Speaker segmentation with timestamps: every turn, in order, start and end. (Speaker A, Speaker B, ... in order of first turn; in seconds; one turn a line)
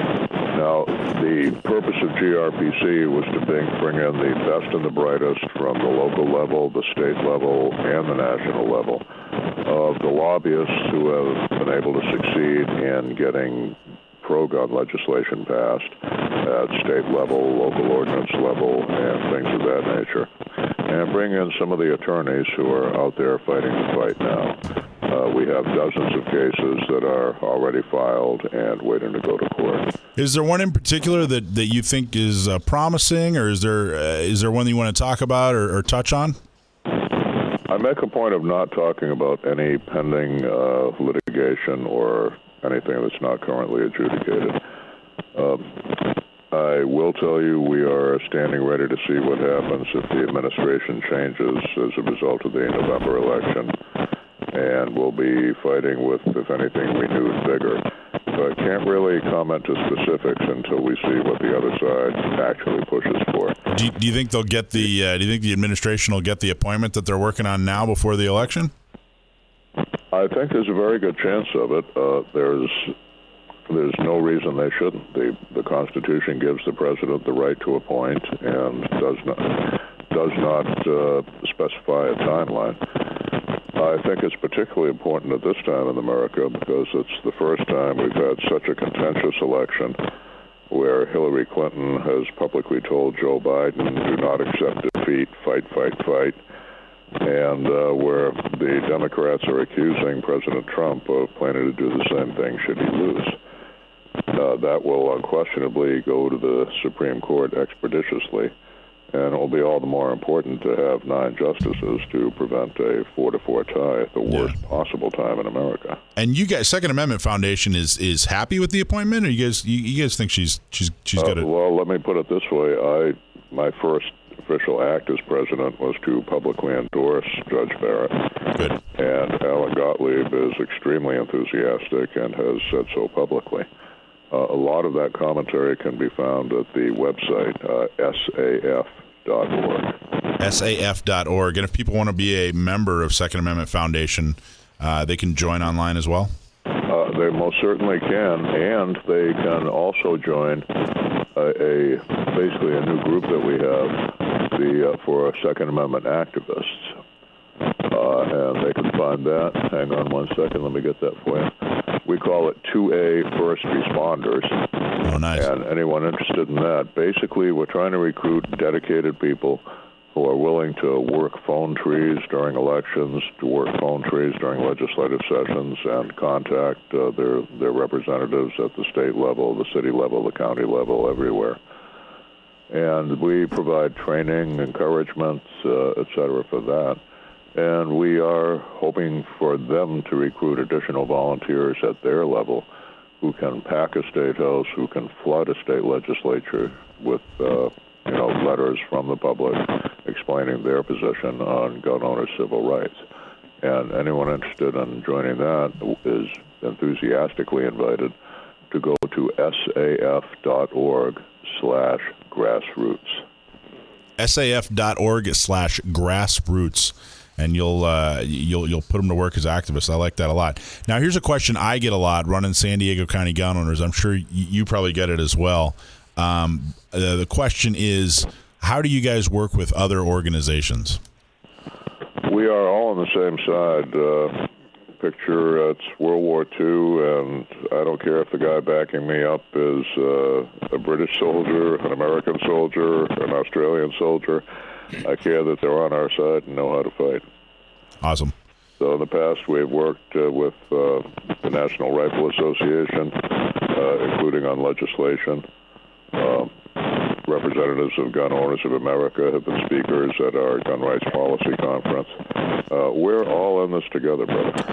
Speaker A: 0.5-9.0
Speaker A: 9.6-20.3
Speaker A: 20.9-29.9
Speaker B: 30.2-36.4
Speaker A: 37.7-44.6
Speaker A: 45.4-53.7
Speaker A: 54.5-63.6
Speaker B: 63.7-68.7
Speaker A: 70.1-73.0
Speaker A: 73.7-82.8
Speaker A: 83.8-90.0
Speaker A: 90.7-96.4
Speaker A: 97.2-103.4
Speaker A: 104.3-108.5
Speaker A: 109.1-116.0
Speaker B: 114.3-114.5
Speaker B: 116.2-121.5
Speaker A: 121.2-128.3
Speaker A: 129.0-133.7
Speaker A: 134.3-139.9
Speaker B: 140.4-146.3
Speaker A: 146.9-150.7
Speaker A: 151.3-156.9
Speaker A: 157.9-161.5
Speaker A: 162.1-164.6
Speaker B: 165.0-165.5
Speaker A: 165.3-181.6
Speaker A: 182.7-187.0
Speaker A: 187.6-192.7
Speaker A: 193.2-203.0
Speaker A: 203.6-208.1
Speaker A: 208.7-213.2
Speaker B: 214.2-231.0
Speaker A: 232.2-234.5
Speaker A: 235.0-244.4
Speaker A: 245.0-247.3
Speaker B: 248.0-248.3
Speaker A: 248.8-255.5
Speaker A: 256.1-264.6